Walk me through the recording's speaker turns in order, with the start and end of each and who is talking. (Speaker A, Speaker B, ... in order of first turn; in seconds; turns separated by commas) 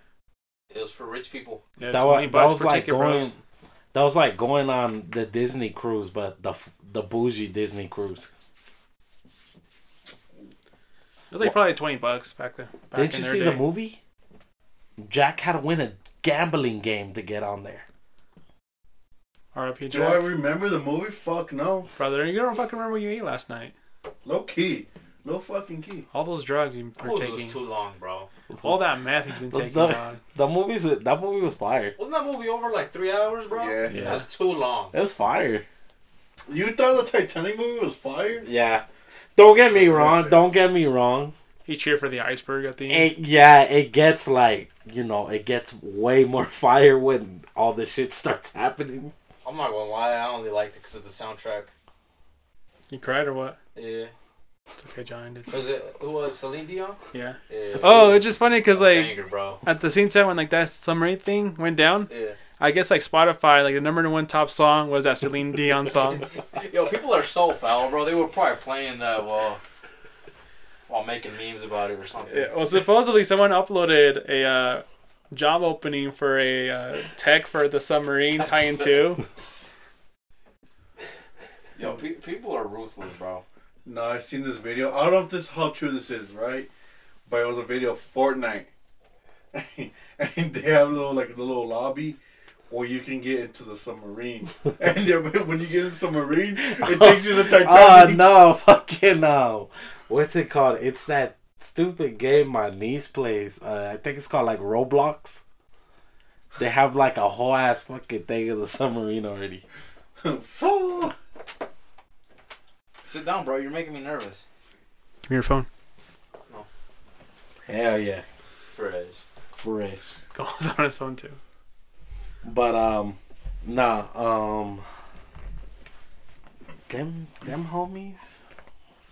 Speaker A: 0.7-1.6, Speaker B: 1.8-3.4, Speaker C: 1.9-3.4, Speaker C: 3.9-8.3, Speaker B: 11.3-13.6, Speaker C: 12.9-14.0, Speaker C: 15.0-17.9, Speaker B: 19.5-20.3, Speaker D: 19.9-21.9, Speaker B: 21.9-23.7, Speaker D: 24.2-26.1, Speaker B: 26.1-27.6, Speaker A: 27.0-28.3, Speaker C: 28.5-28.8, Speaker B: 28.6-30.2, Speaker C: 29.4-32.0, Speaker A: 32.0-34.9, Speaker D: 33.5-34.2, Speaker B: 33.9-34.2, Speaker C: 34.9-35.6, Speaker D: 36.5-38.5, Speaker C: 38.4-38.9, Speaker C: 39.4-41.3, Speaker D: 39.6-40.5, Speaker B: 41.6-43.1, Speaker C: 42.9-49.1, Speaker A: 49.4-51.7, Speaker B: 52.9-53.6, Speaker A: 53.8-54.1, Speaker B: 54.8-55.6, Speaker A: 55.5-59.6, Speaker B: 57.1-66.3, Speaker A: 62.1-62.4, Speaker A: 66.4-69.6, Speaker A: 70.9-72.5, Speaker B: 72.3-79.2, Speaker A: 78.3-79.1, Speaker A: 81.8-83.4, Speaker D: 83.8-86.7, Speaker D: 87.3-88.7, Speaker D: 89.5-92.2, Speaker D: 92.7-98.3, Speaker C: 96.6-105.4, Speaker C: 106.6-109.6, Speaker D: 110.2-111.2, Speaker A: 113.0-114.5, Speaker B: 115.3-115.7, Speaker C: 117.7-118.2, Speaker A: 118.8-119.2, Speaker C: 119.6-120.0, Speaker B: 120.3-121.4, Speaker C: 122.4-124.9, Speaker C: 126.9-128.4